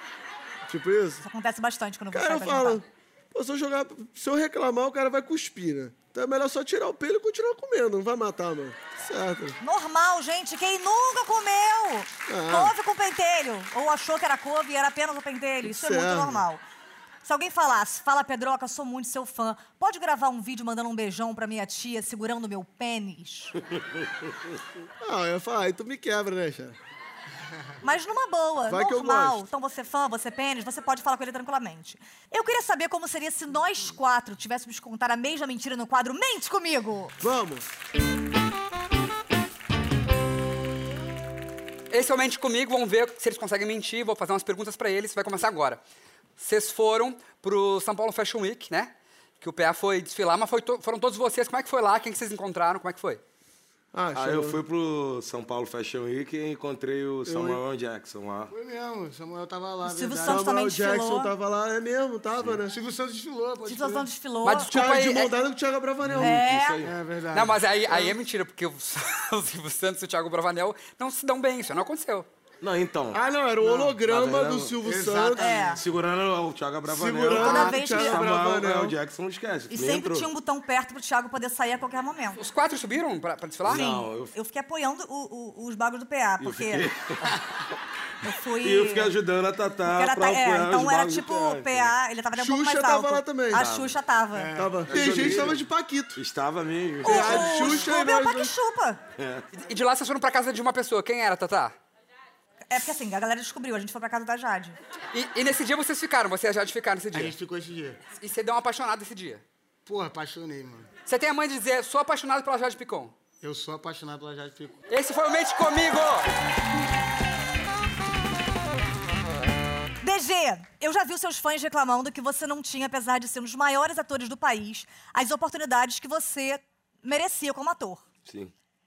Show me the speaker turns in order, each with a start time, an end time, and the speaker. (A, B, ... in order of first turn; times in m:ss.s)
0:00.6-0:01.2 A
0:01.2-0:02.8 B
0:02.1-0:09.6 A
0:09.6-0:16.6 B
0:12.3-0:12.7 A
0:15.6-0:16.4 A
0:17.2-0:23.6 B
0:25.0-0:26.8 A
0:27.8-0:37.1 B
0:28.7-0:29.4 A
0:37.2-0:37.7 A
0:41.9-0:45.8 C
0:46.4-0:53.2 C
0:53.9-0:54.6 A
0:54.1-0:58.5 D
0:58.5-1:00.4 E
0:59.8-1:01.3 B
1:00.2-1:02.7 A
1:02.7-1:04.1 E
1:03.6-1:04.7 B
1:04.4-1:05.3 C
1:04.7-1:06.4 A
1:06.1-1:07.0 D
1:06.2-1:06.8 B
1:06.8-1:07.6 E
1:07.3-1:12.3 C
1:12.6-1:13.2 D
1:13.1-1:15.6 A
1:13.6-1:13.9 E
1:14.0-1:14.8 D
1:14.8-1:15.7 E
1:15.4-1:15.8 B
1:15.7-1:20.3 D
1:16.9-1:19.0 A
1:17.3-1:18.2 B
1:19.7-1:22.4 B
1:22.4-1:23.8 C
1:23.6-1:24.3 D
1:23.7-1:26.9 B
1:26.4-1:27.3 D
1:28.2-1:29.1 B
1:28.6-1:31.9 D
1:29.8-1:34.5 B
1:32.3-1:33.6 A
1:33.5-1:34.0 D
1:34.3-1:35.6 E
1:34.6-1:36.2 A
1:34.8-1:35.6 D
1:36.1-1:37.6 D
1:37.0-1:38.5 A
1:37.0-1:39.0 B
1:39.2-1:39.4 D
1:39.5-1:41.7 C
1:42.7-1:44.8 B
1:45.1-1:47.3 C
1:47.1-1:48.0 E
1:48.2-1:49.4 C
1:49.8-1:50.9 E
1:51.0-1:53.2 C
1:53.4-1:54.8 E
1:54.9-1:56.3 C
2:00.0-2:08.0 B
2:08.2-2:08.5 D